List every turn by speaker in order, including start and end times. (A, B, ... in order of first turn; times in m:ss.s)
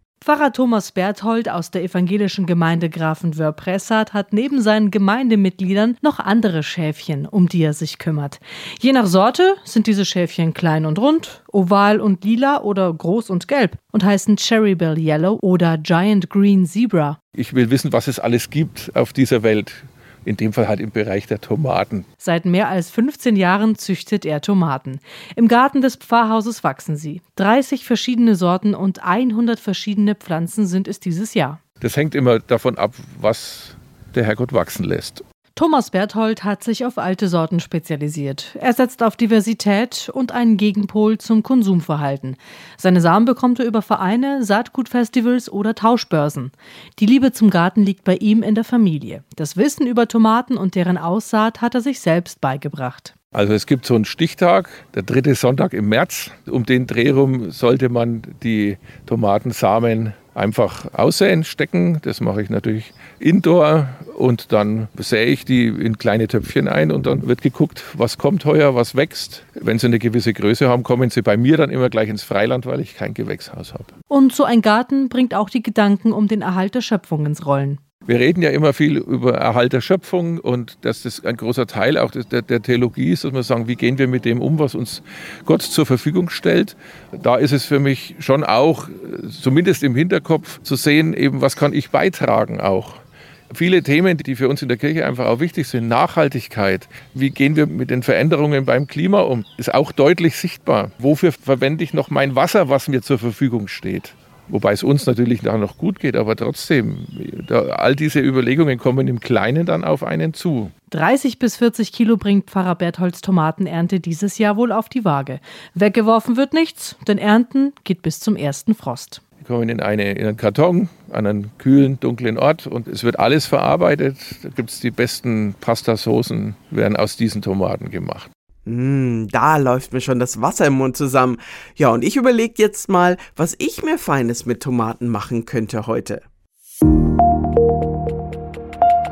0:00.2-0:17.2 A
0:17.4-0:22.0 B
0:22.2-0:31.6 A
0:31.8-0:35.2 B
0:35.6-0:53.1 A
0:53.4-1:13.9 B
1:14.1-1:17.8 A
1:18.1-1:33.0 B
1:33.5-1:50.7 B
1:50.9-1:59.2 A
1:59.4-2:08.3 B
2:08.6-2:16.2 C